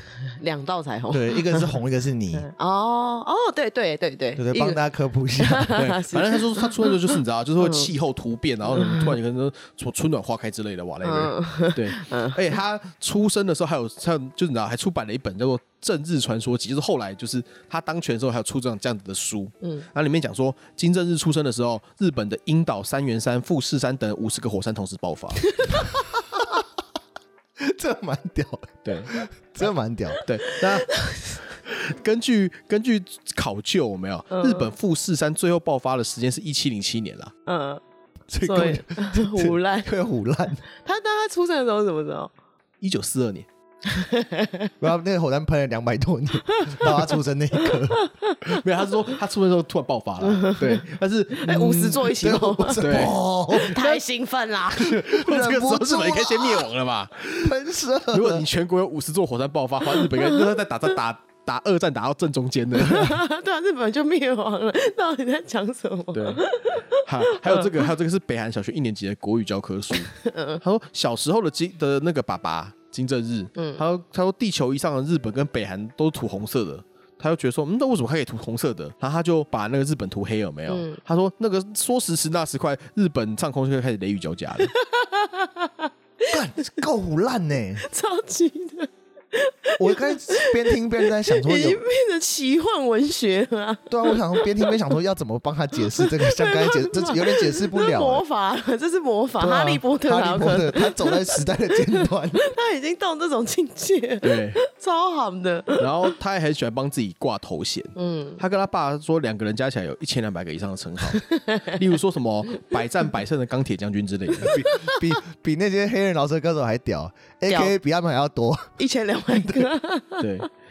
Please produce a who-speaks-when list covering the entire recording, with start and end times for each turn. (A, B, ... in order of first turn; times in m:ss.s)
0:00.4-0:01.7 A
0:01.1-0:02.5 B
0:02.4-0:04.8 A
0:04.4-0:05.8 B
0:05.4-0:07.9 A
0:05.8-0:25.5 C
0:08.6-0:09.2 A
0:11.0-0:12.5 A
0:25.5-0:25.8 A
0:26.1-0:26.6 B
0:27.6-0:30.2 B
0:28.8-0:29.2 C
0:30.2-0:30.9 C
0:30.4-0:31.4 A
0:31.6-0:37.3 C
0:34.3-0:34.7 A
0:37.5-0:37.8 A
0:38.3-0:40.6 B
0:38.4-0:39.9 A
0:40.8-0:42.3 A
0:42.8-0:43.5 C
0:43.8-0:44.7 A
0:44.8-0:48.0 B
0:46.4-0:48.6 A
0:48.5-0:52.0 C
0:50.2-0:50.8 A
0:51.4-0:55.0 A
0:52.0-0:53.8 B
0:52.8-0:54.0 C
0:54.7-0:57.6 C
0:55.0-0:56.6 B
0:57.4-0:58.4 B
0:58.1-1:03.2 C
1:00.0-1:00.4 A
1:02.8-1:07.9 A
1:06.1-1:24.7 C
1:10.1-1:10.6 A
1:13.6-1:13.8 A
1:20.7-1:21.0 A
1:24.8-1:26.3 A
1:26.3-1:27.8 B
1:27.8-1:34.9 A
1:29.8-1:31.8 B
1:33.9-1:38.2 B
1:36.0-1:46.1 A
1:39.4-1:42.4 B
1:44.2-1:44.6 C
1:45.8-1:54.6 C
1:48.0-1:48.4 A
1:51.1-1:51.8 A
1:54.4-1:58.7 B
1:54.4-1:55.0 A
1:57.5-1:57.7 A
1:58.8-2:00.3 A
1:59.3-1:59.7 B
2:00.2-2:00.5 C